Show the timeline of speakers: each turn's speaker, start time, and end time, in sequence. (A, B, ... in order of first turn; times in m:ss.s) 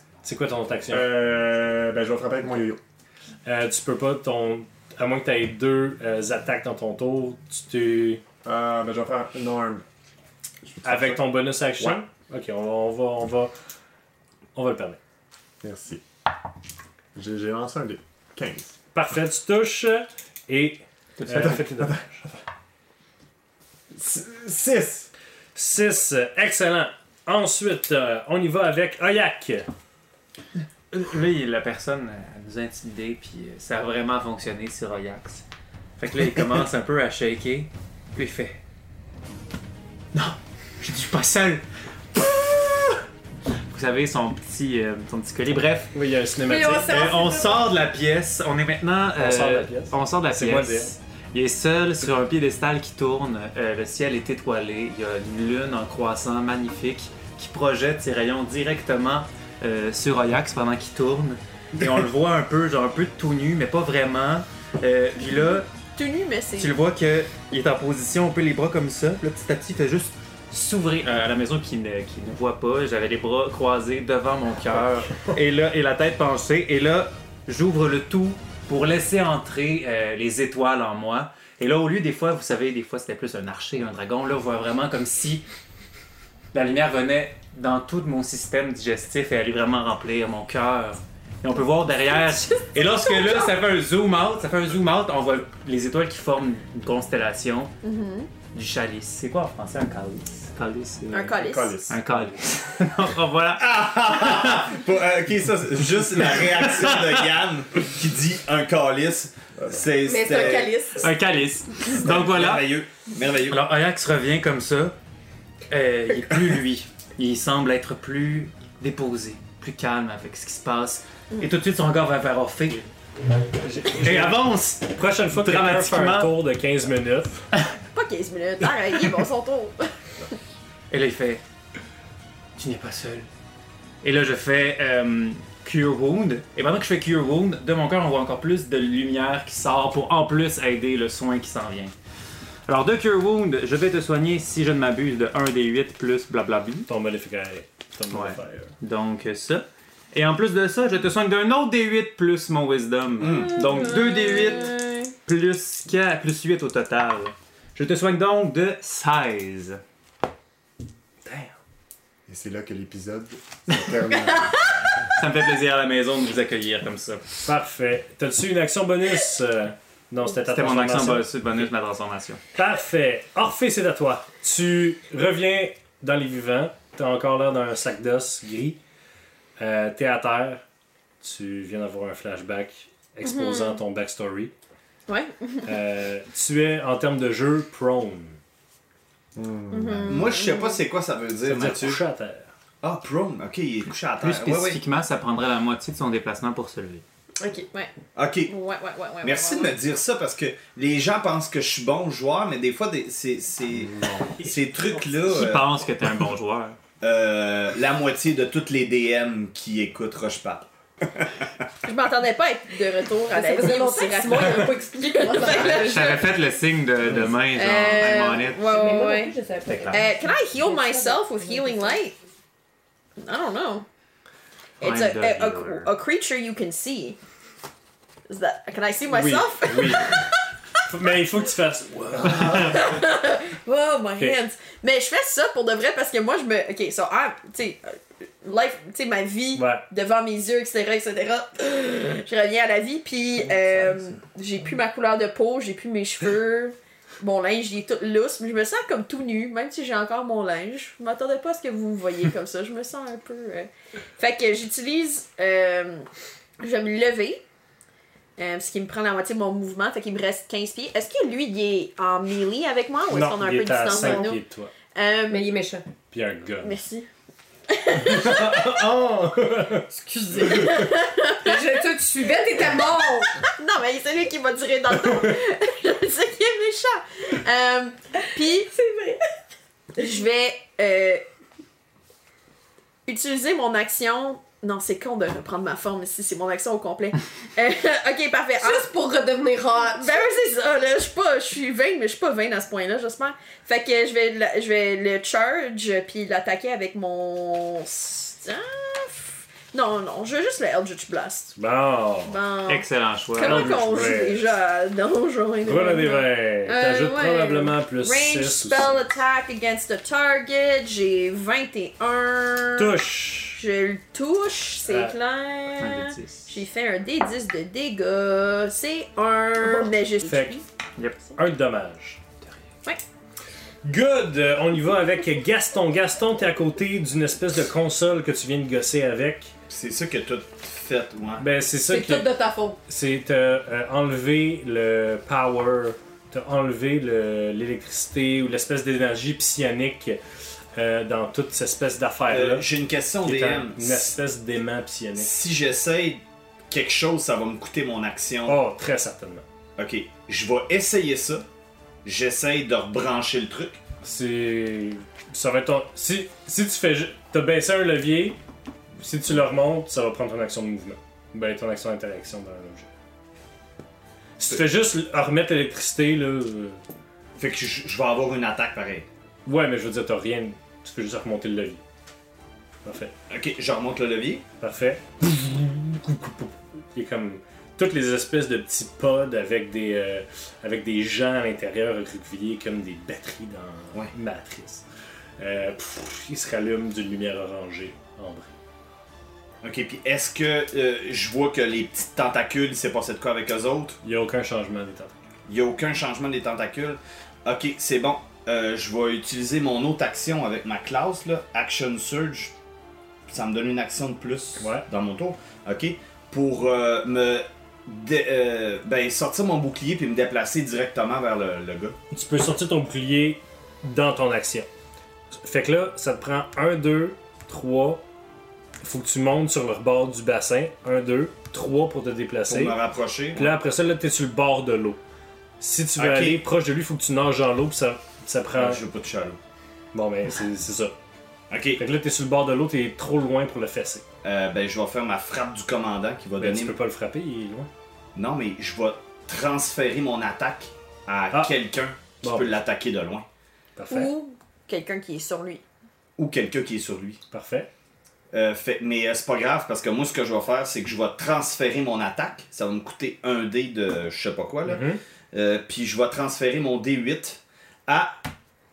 0:00.2-0:01.1 A
0:00.9-0:02.8 B
0:03.4-0:08.2 A
0:08.4-0:09.8 B
0:10.7-0:11.3 B
0:10.8-0:13.6 A
0:14.6-0:15.0 A
0:15.6-0:16.0 B
0:17.2-0:18.8 B
0:18.9-0:22.3 A
0:21.2-0:21.6 C
0:21.3-0:22.0 B
0:23.9-0:25.1 B
0:25.6-0:29.7 A
0:30.9-0:35.4 C
0:36.0-0:38.6 C
0:40.1-0:43.0 C
0:43.6-0:45.9 C
0:45.9-0:46.9 A
0:46.4-0:47.7 D
0:46.9-1:05.7 C
0:49.2-0:50.9 A
1:06.0-1:06.7 E
1:06.6-1:25.4 C
1:26.5-1:37.8 C
1:37.8-1:38.3 E
1:38.5-1:44.8 C
1:41.1-1:41.8 E
1:41.4-1:42.0 B
1:43.6-1:50.8 F
1:46.2-1:47.2 C
1:49.6-1:49.8 B
1:50.0-1:51.1 D
1:51.0-1:52.7 C
1:52.0-1:53.6 F
1:53.5-1:55.0 C
1:55.7-2:02.9 C
2:03.6-2:07.5 A
2:03.9-2:06.4 C
2:07.9-2:10.4 E
2:10.9-2:11.4 C
2:12.6-2:13.3 C
2:14.0-2:21.9 C
2:22.7-2:26.9 C
2:26.9-2:28.7 A
2:28.1-2:39.8 C
2:33.2-2:33.7 F
2:33.3-2:35.1 E
2:41.3-2:41.5 A
2:42.3-2:44.7 B
2:45.1-2:47.2 C
2:47.4-2:51.3 A
2:50.4-2:52.4 C
2:52.5-2:58.8 A
2:59.6-3:00.6 A
3:01.2-3:04.5 A
3:03.2-3:03.8 E
3:05.1-3:05.7 E
3:05.6-3:08.4 A
3:09.4-3:10.3 B
3:09.7-3:10.8 E
3:10.1-3:12.0 F
3:11.4-3:12.5 A
3:12.8-3:14.8 F
3:14.2-3:17.0 C
3:17.4-3:17.7 D
3:18.2-3:18.5 F
3:18.5-3:19.8 E
3:19.2-3:25.7 F
3:23.7-3:24.4 B
3:25.3-3:26.8 C
3:27.0-3:30.7 F
3:31.8-3:36.2 E
3:33.3-3:36.4 D
3:35.4-3:38.7 C
3:37.5-3:39.4 E
3:38.6-3:42.0 D
3:39.7-3:40.0 C
3:39.9-3:42.2 E
3:43.2-3:43.9 E
3:44.8-3:45.9 C
3:44.8-3:47.2 E
3:48.3-3:50.4 E
3:49.1-3:50.2 A
3:50.8-3:53.0 A
3:52.5-4:16.1 E
3:59.6-3:59.8 A
4:16.6-4:17.4 E
4:18.4-4:24.4 E
4:23.1-4:24.7 A
4:23.9-4:24.3 D
4:24.9-4:25.5 E
4:25.3-4:25.8 D
4:26.1-4:26.8 A
4:26.6-4:27.1 E
4:27.7-4:28.8 E
4:27.9-4:30.8 A
4:29.9-4:33.4 D
4:30.4-4:31.7 E
4:33.4-4:38.7 E
4:38.6-4:39.2 D
4:40.0-4:41.2 E
4:43.1-4:48.9 E
4:48.6-4:50.4 D
4:49.8-5:01.6 E
5:01.6-5:02.4 A
5:02.3-5:13.0 E
5:02.7-5:03.8 C
5:03.4-5:04.5 A
5:05.6-5:09.0 A
5:12.8-5:13.6 A
5:13.6-5:20.6 E
5:14.9-5:15.2 A
5:15.8-5:16.5 C
5:20.2-5:20.6 A
5:21.4-5:22.2 A
5:23.8-5:29.5 A
5:29.7-5:31.5 F
5:31.4-5:32.3 A
5:31.8-5:32.8 D
5:32.8-5:40.2 A
5:40.8-5:42.7 A
5:42.3-5:44.2 F
5:43.2-5:45.3 A
5:45.2-5:48.6 F
5:48.5-5:49.4 A
5:49.8-5:51.4 F
5:52.0-5:53.8 F
5:54.0-5:58.4 A
5:59.0-6:02.9 A
6:04.4-6:06.8 A
6:07.4-6:09.1 F
6:09.5-6:11.8 A
6:12.8-6:13.1 A
6:13.3-6:14.4 F
6:14.6-6:24.8 A
6:25.4-6:28.5 A
6:29.6-6:34.0 F
6:34.0-6:35.1 A
6:35.5-6:42.5 F
6:43.3-6:52.0 F
6:44.6-6:44.9 A
6:52.1-6:54.7 A
6:55.4-6:58.0 A
6:58.8-7:02.8 A
7:02.5-7:03.6 F
7:03.4-7:05.0 A
7:05.6-7:08.8 A
7:06.0-7:06.4 F
7:08.6-7:09.4 F
7:09.9-7:10.9 A
7:11.5-7:11.8 F
7:11.8-7:14.0 A
7:14.2-7:16.8 F
7:16.4-7:17.7 A
7:18.2-7:23.2 F
7:22.2-7:22.6 A
7:23.8-7:24.1 A
7:23.9-7:25.6 E
7:26.2-7:27.2 F
7:27.3-7:27.7 A
7:28.3-7:38.2 F
7:34.7-7:35.0 A